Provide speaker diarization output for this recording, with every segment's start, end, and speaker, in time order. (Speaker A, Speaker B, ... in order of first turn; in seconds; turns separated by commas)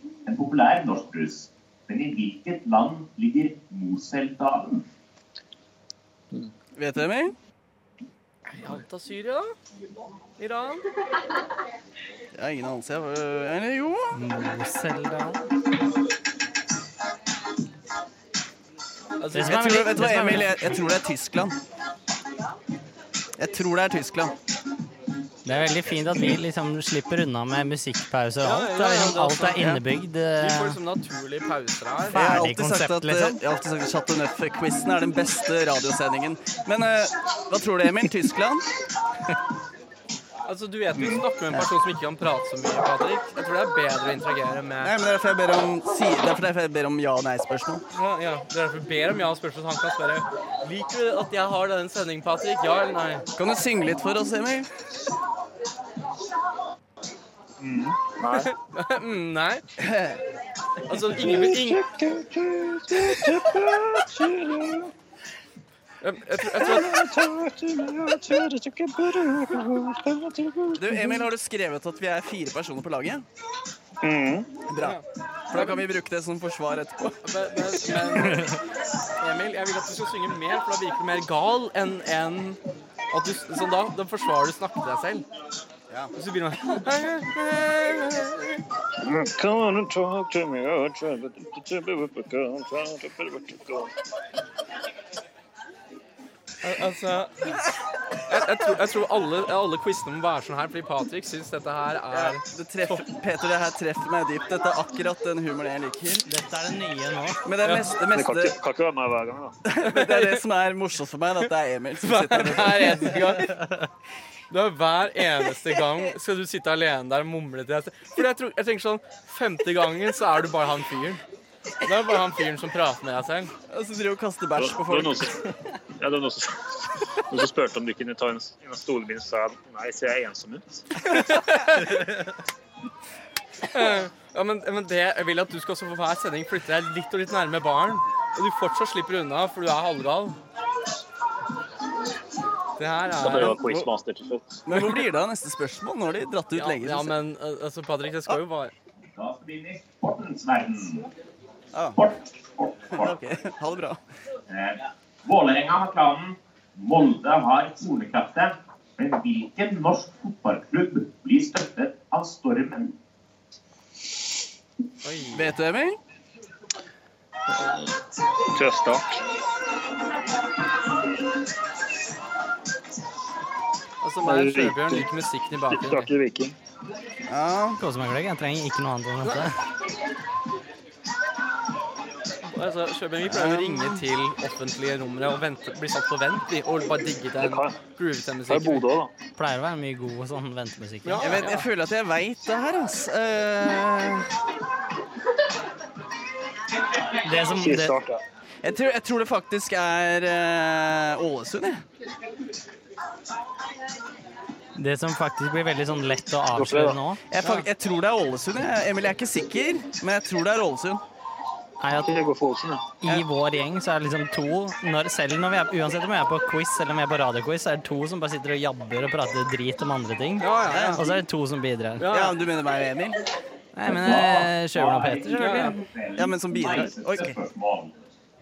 Speaker A: 0.2-4.8, Speaker B: 6.7-7.3, Speaker C: 8.5-9.5, Speaker C: 10.4-10.8, Speaker B: 12.3-14.2, Speaker D: 14.1-15.4, Speaker C: 19.2-20.7, Speaker D: 19.3-20.5, Speaker B: 19.4-21.6, Speaker B: 23.4-24.3, Speaker D: 25.4-30.8, Speaker C: 28.4-29.6, Speaker B: 29.5-29.8, Speaker C: 30.4-32.2, Speaker D: 32.1-33.4, Speaker B: 32.1-38.7, Speaker C: 40.5-44.9, Speaker E: 40.9-41.2, Speaker B: 44.8-47.8, Speaker C: 47.9-53.2, Speaker B: 53.4-54.7, Speaker E: 57.6-58.5, Speaker C: 58.3-59.6, Speaker B: 59.8-60.2, Speaker C: 60.9-61.8, Speaker E: 61.1-64.9, Speaker C: 66.0-66.9, Speaker E: 66.6-71.2, Speaker B: 70.7-73.2, Speaker E: 74.0-74.6, Speaker B: 74.7-77.2, Speaker C: 74.8-75.8, Speaker C: 77.2-78.5, Speaker C: 79.2-82.6, Speaker C: 83.1-85.2, Speaker C: 86.1-88.6, Speaker E: 89.0-93.9, Speaker C: 96.6-97.5, Speaker C: 98.3-103.0, Speaker B: 102.1-106.3, Speaker D: 106.2-107.4, Speaker B: 107.4-108.5, Speaker C: 107.6-107.9, Speaker E: 108.0-109.6, Speaker B: 109.6-113.3, Speaker C: 109.8-110.4, Speaker C: 112.0-113.5, Speaker D: 113.5-113.8, Speaker C: 114.5-121.2, Speaker C: 121.8-123.5, Speaker B: 123.7-125.3, Speaker E: 124.5-130.8, Speaker C: 131.0-132.3, Speaker C: 133.7-140.4, Speaker C: 142.8-143.6, Speaker E: 143.2-144.6, Speaker B: 143.4-143.9, Speaker B: 144.6-147.1, Speaker C: 146.5-148.7, Speaker A: 149.1-151.1, Speaker B: 151.7-152.0, Speaker A: 151.9-153.1, Speaker B: 152.9-154.0, Speaker A: 154.5-163.0, Speaker C: 165.0-165.5, Speaker B: 165.3-166.0, Speaker E: 167.5-168.0, Speaker E: 168.5-169.2, Speaker C: 174.0-176.1, Speaker E: 174.2-175.1, Speaker E: 175.7-176.6, Speaker B: 177.3-177.8, Speaker D: 177.8-179.6, Speaker C: 182.4-188.8, Speaker B: 183.2-184.1, Speaker E: 187.4-187.8, Speaker E: 188.4-189.1, Speaker D: 189.3-191.4, Speaker C: 191.0-191.7, Speaker B: 191.2-194.3, Speaker D: 197.2-198.0, Speaker E: 197.3-198.2, Speaker B: 198.6-201.8, Speaker D: 204.8-207.2, Speaker E: 206.5-207.0, Speaker B: 207.3-211.0, Speaker C: 207.4-207.7, Speaker D: 211.8-212.2, Speaker E: 211.9-212.9, Speaker D: 213.0-222.1, Speaker C: 220.4-221.0, Speaker B: 220.7-221.1, Speaker C: 222.0-222.3, Speaker B: 222.1-223.2, Speaker D: 223.7-225.8, Speaker A: 223.8-228.0, Speaker C: 225.3-225.8, Speaker B: 226.2-227.4